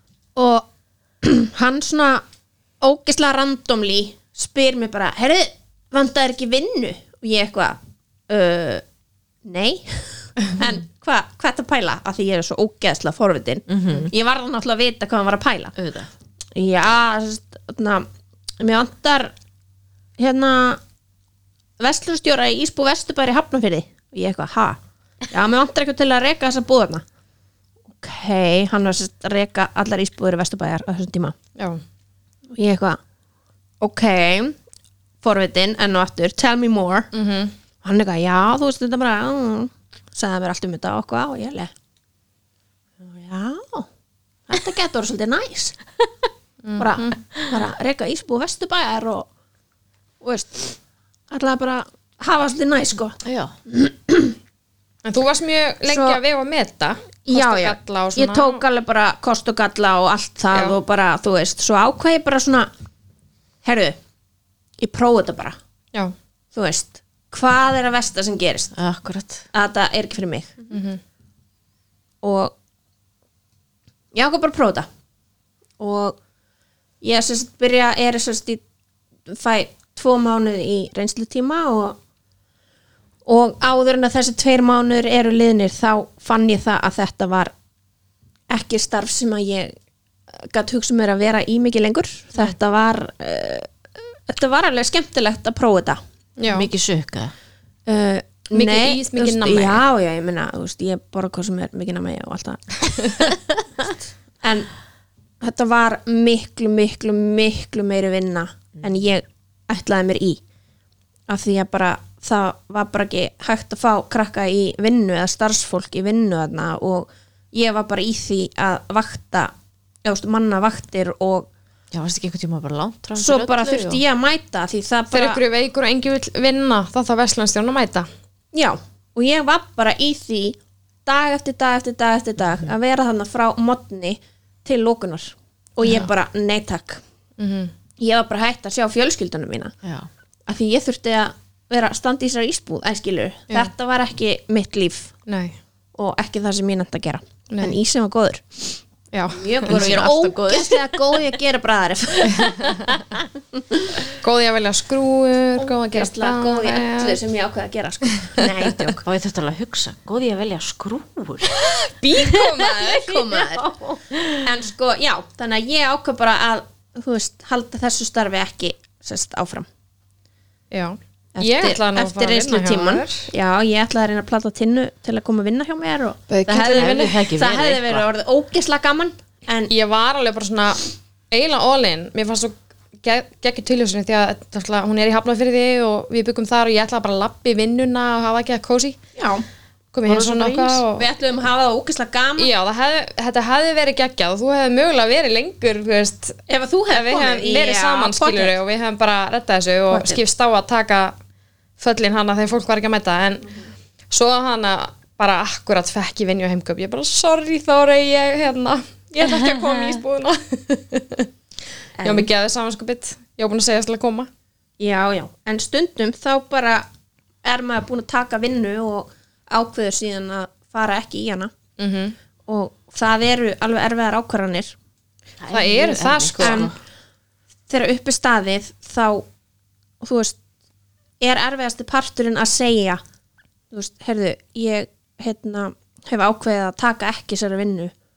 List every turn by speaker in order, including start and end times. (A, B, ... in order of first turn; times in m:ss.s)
0:00.4-0:00.7 A
0:01.2-0:02.2 A
0:02.8-0:07.8 A
0:08.3-0:08.8 A
0:09.4-0:15.8 A
0:13.7-0:14.1 B
0:15.8-0:16.1 B
0:16.5-0:18.1 A
0:18.6-0:19.3 A
0:20.2-0:20.8 A
0:21.8-0:24.8 A
0:25.3-0:27.0 A
0:27.9-0:31.4 A
0:31.6-0:31.8 C
0:32.5-0:33.0 A
0:33.8-0:34.6 A
0:35.2-0:37.1 A
0:37.1-0:37.5 C
0:37.8-0:41.7 A
0:43.0-0:43.9 A
0:44.5-0:45.8 A
0:46.6-0:47.2 C
0:46.8-0:49.3 A
0:50.2-0:50.8 A
0:51.3-0:54.4 A
0:53.2-0:53.5 B
0:55.0-0:58.6 C
0:55.9-0:56.2 A
0:57.3-1:02.7 A
1:03.6-1:04.0 A
1:04.8-1:05.6 A
1:06.5-1:08.7 A
1:08.7-1:09.5 B
1:09.5-1:10.5 A
1:10.7-1:11.0 C
1:12.2-1:12.5 A
1:14.1-1:14.9 A
1:15.8-1:16.2 A
1:17.0-1:18.6 A
1:19.3-1:22.0 A
1:23.2-1:27.5 A
1:28.5-1:29.7 A
1:30.3-1:36.0 A
1:36.4-1:36.7 C
1:36.5-1:37.3 B
1:37.9-1:43.9 A
1:38.5-1:39.8 C
1:44.4-1:44.7 A
1:45.4-1:50.4 A
1:51.3-1:59.5 A
2:00.0-2:01.5 A
2:01.9-2:04.0 B
2:03.2-2:05.4 A
2:05.1-2:08.1 C
2:08.5-2:17.0 A
2:17.4-2:17.7 C
2:18.0-2:19.7 A
2:20.5-2:25.1 A
2:25.3-2:25.6 C
2:26.0-2:32.9 A
2:27.5-2:27.8 C
2:29.1-2:29.9 C
2:29.6-2:31.0 B
2:32.3-2:32.9 C
2:34.2-2:37.2 C
2:35.6-2:39.0 A
2:39.0-2:41.7 B
2:41.5-2:43.2 C
2:42.6-2:49.7 A
2:44.1-2:44.4 B
2:50.7-2:53.3 C
2:51.3-2:59.7 A
2:56.3-2:57.2 C
2:56.5-2:58.0 B
2:59.7-3:09.0 C
3:09.2-3:09.4 A
3:09.9-3:11.0 C
3:10.1-3:10.8 B
3:10.2-3:12.5 A
3:12.4-3:21.1 C
3:16.5-3:18.6 A
3:19.9-3:20.2 A
3:21.8-3:23.5 C
3:24.1-3:31.3 C
3:32.0-3:32.3 A
3:32.0-3:34.3 C
3:34.8-3:36.9 A
3:37.4-3:41.5 A
3:41.8-3:42.2 C
3:42.5-3:44.8 A
3:45.4-3:46.7 B
3:45.5-3:46.7 C
3:46.4-3:46.7 A
3:47.7-3:49.3 A
3:50.0-3:50.4 A
3:51.2-3:53.0 A
3:53.7-3:57.9 A